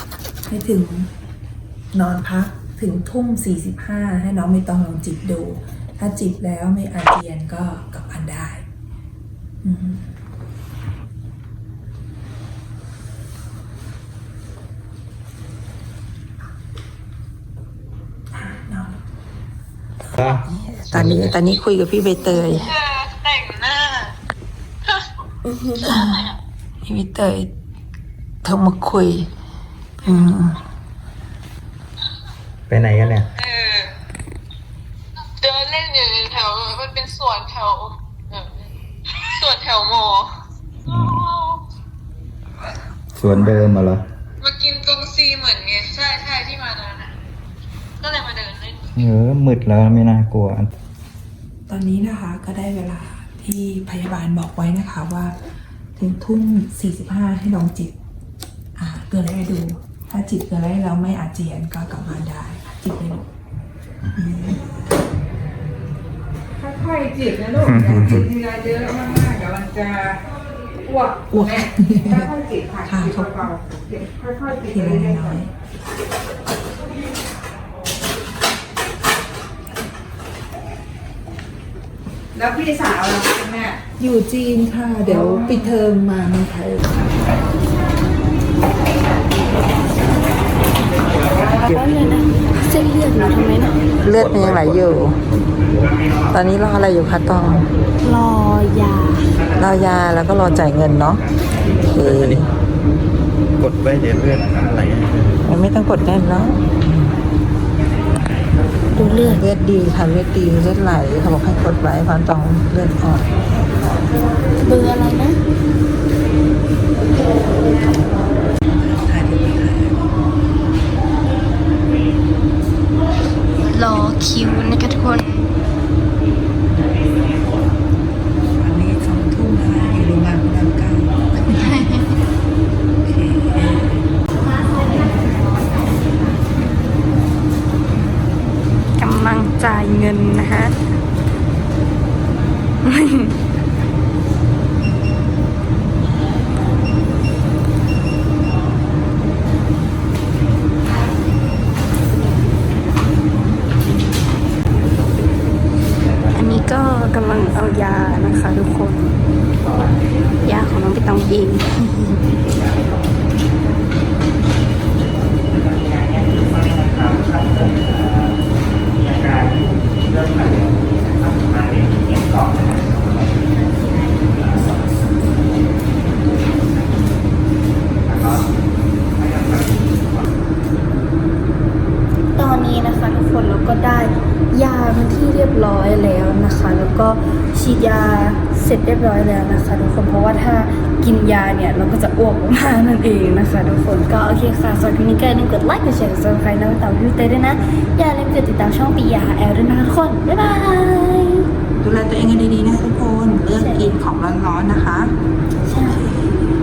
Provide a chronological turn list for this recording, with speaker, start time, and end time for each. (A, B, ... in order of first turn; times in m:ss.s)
0:00.5-0:01.1 A
0:01.9-0:08.6 A
0:09.6-0:10.1 A
0:18.3-0:19.0 A
0:20.1-0:22.8 A
0:20.2-0:21.4 B
0:22.8-0:24.1 C
0:25.8-0:26.3 A
0:26.8-0:27.5 A
0:28.4-0:29.3 A
0:30.0-0:30.6 A
0:32.7-0:33.3 B
0:33.4-0:33.9 C
0:35.4-0:38.5 C
0:39.1-0:40.4 C
0:40.9-0:41.3 B
0:41.2-0:41.6 C
0:43.1-0:44.0 B
0:44.4-0:47.1 C
0:48.0-0:48.9 C
0:49.0-0:50.7 B
0:51.7-0:55.4 A
0:56.0-0:58.0 A
0:58.8-1:03.3 A
1:04.1-1:04.6 A
1:06.7-1:10.2 D
1:07.6-1:08.3 B
1:11.0-1:11.3 D
1:11.3-1:13.6 A
1:12.3-1:12.8 D
1:14.6-1:15.5 A
1:22.4-1:23.7 D
1:23.8-1:27.1 A
1:31.4-1:33.8 E
1:34.0-1:35.2 A
1:34.0-1:35.1 B
1:36.3-1:37.7 A
1:38.0-1:39.3 E
1:39.6-1:41.2 A
1:41.9-1:42.4 A
1:42.0-1:42.4 B
1:43.6-1:45.4 B
1:45.4-1:46.8 A
1:49.0-1:49.4 E
1:49.0-1:53.3 A
1:54.6-1:55.4 E
1:58.7-2:00.0 A
2:03.7-2:05.5 E
2:08.6-2:11.9 A
2:13.1-2:14.0 A
2:19.0-2:20.7 E
2:22.8-2:23.3 E
2:36.3-2:39.2 E
2:40.4-2:42.2 E
3:02.4-3:21.5 E
3:21.8-3:25.1 A
3:23.6-3:24.0 E
3:25.7-3:26.2 E